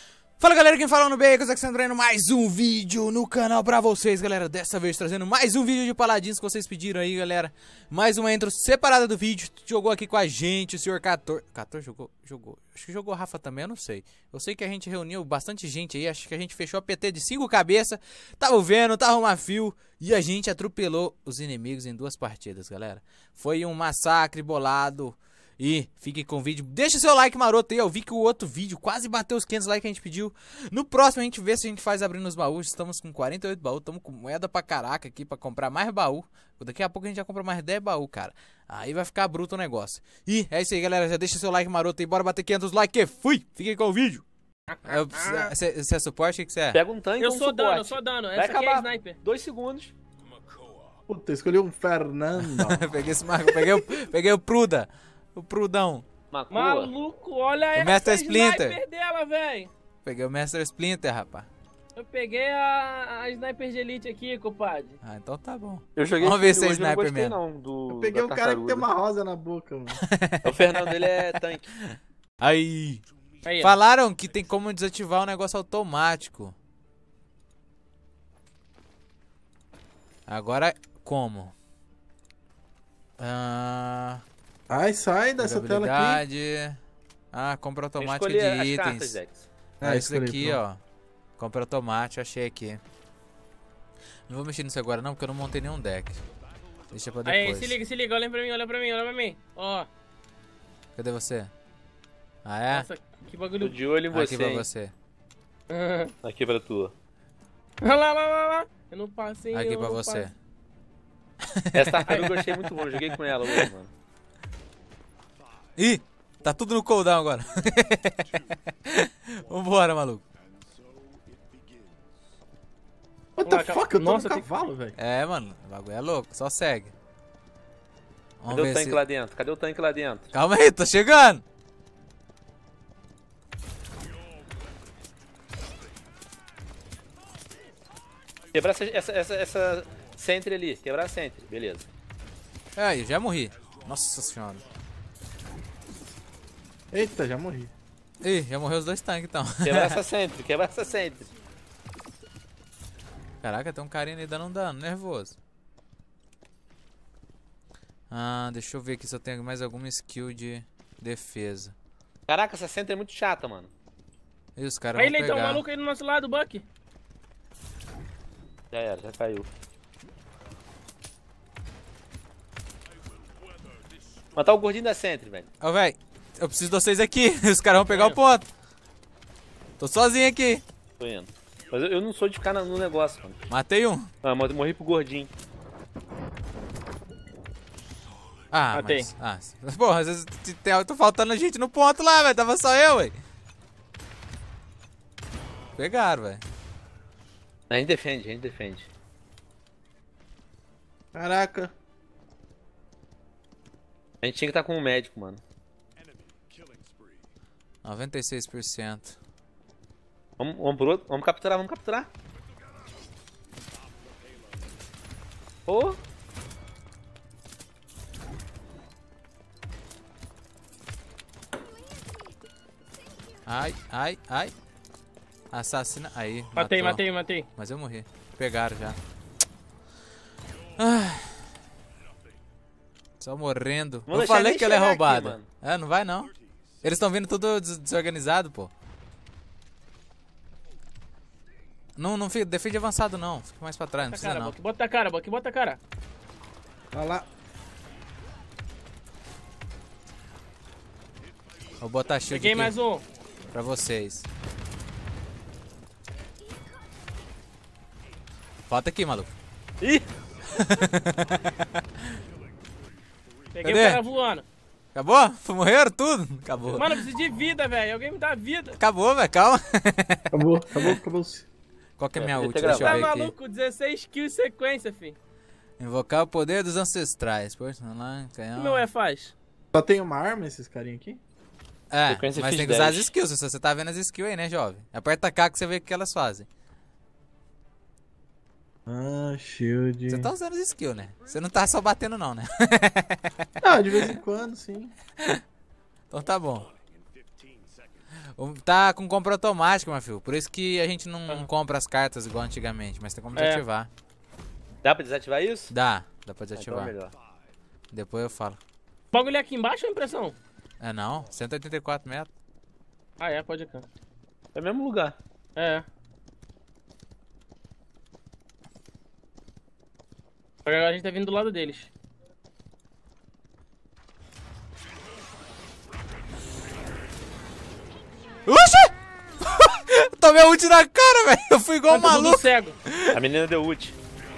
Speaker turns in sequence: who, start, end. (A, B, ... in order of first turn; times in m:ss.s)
0:00.4-0:44.2 A
0:44.7-0:45.5 B
0:44.8-0:46.8 A
0:46.7-0:49.9 C
0:47.2-0:49.2 B
0:51.1-0:52.9 D
0:52.4-0:56.0 A
0:56.3-0:56.9 C
0:56.5-0:59.7 B
0:57.7-0:58.8 A
1:00.0-1:01.5 A
1:02.0-1:05.0 B
1:05.0-1:07.4 A
1:06.0-1:08.9 C
1:07.9-1:10.0 D
1:10.0-1:11.4 A
1:10.4-1:11.7 C
1:11.9-1:13.0 A
1:13.4-1:13.7 B
1:13.6-1:16.5 A
1:20.3-1:21.5 A
1:23.2-1:24.2 A
1:24.7-1:26.2 D
1:25.4-1:26.8 A
1:27.3-1:29.2 A
1:28.0-1:29.4 C
1:29.8-1:30.8 A
1:29.8-1:30.6 D
1:31.4-1:32.8 A
1:34.3-1:36.2 A
1:36.9-1:37.8 A
1:37.2-1:39.9 B
1:41.0-1:41.5 A
1:42.4-1:42.9 A
1:42.7-1:43.7 B
1:43.6-1:44.6 C
1:44.1-1:44.9 A
1:45.7-1:46.1 B
1:46.2-1:46.9 C
1:47.8-1:50.3 B
1:49.5-1:50.3 A
1:51.6-1:52.0 A
1:51.7-1:53.9 C
1:52.6-1:53.7 A
1:55.8-2:00.2 A
2:03.4-2:04.9 D
2:03.4-2:04.5 B
2:04.9-2:06.9 A
2:08.4-2:09.0 A
2:08.5-2:10.3 C
2:10.3-2:11.4 A
2:18.5-2:21.9 C
2:22.8-2:24.6 A
2:26.9-2:27.7 D
2:28.2-2:30.0 A
2:29.6-2:31.3 C
2:33.4-2:35.4 A
2:38.1-2:41.7 A
2:42.3-2:43.7 C
2:44.6-2:45.6 A
2:44.9-2:46.6 B
2:48.7-2:49.5 C
2:54.3-2:55.5 C
2:55.6-2:58.5 A
2:57.9-2:58.2 B
2:59.8-3:00.6 A
3:01.0-3:03.4 C
3:03.5-3:04.1 A
3:04.2-3:05.3 C
3:08.5-3:13.2 A
3:08.7-3:09.1 B
3:15.8-3:16.4 A
3:17.7-3:18.9 C
3:21.1-3:21.7 D
3:24.2-3:25.4 C
3:27.8-3:29.2 A
3:30.4-3:32.1 C
3:35.7-3:36.0 C
3:43.5-3:44.5 A
3:45.5-3:47.0 A
3:46.5-3:47.5 B
3:47.6-3:49.0 A
3:50.8-3:51.5 A
3:53.2-3:56.3 A
3:54.1-3:55.5 C
3:56.8-3:58.7 A
4:02.0-4:04.5 A
4:04.0-4:05.8 B
4:06.9-4:07.2 D
4:11.8-4:12.7 A
4:12.3-4:13.0 B
4:13.5-4:14.3 A
4:18.7-4:19.3 A
4:19.8-4:20.1 C
4:20.6-4:21.8 A
4:23.5-4:24.5 B
4:23.6-4:24.0 A
4:24.9-4:27.0 A
4:26.7-4:28.8 B
4:28.8-4:31.0 A
4:30.3-4:31.5 D
4:32.0-4:33.3 A
4:32.2-4:33.1 C
4:32.6-4:35.2 B
4:35.8-4:38.9 A
4:38.5-4:39.3 B
4:39.7-4:41.2 D
4:41.9-4:46.5 A
4:42.1-4:43.1 C
4:48.8-4:50.3 D
4:50.1-4:54.2 A
4:53.6-4:54.9 D
4:56.1-4:56.7 A
4:58.3-5:03.9 A
5:03.3-5:03.6 B
5:04.8-5:05.7 C
5:05.7-5:06.9 A
5:06.6-5:07.1 C
5:07.9-5:08.6 A
5:09.1-5:10.4 B
5:10.8-5:12.3 A
5:13.2-5:13.8 B
5:14.5-5:15.2 C
5:15.6-5:15.8 B
5:20.6-5:21.9 B
5:28.5-5:33.2 A
5:31.9-5:32.8 B
5:33.1-5:34.0 C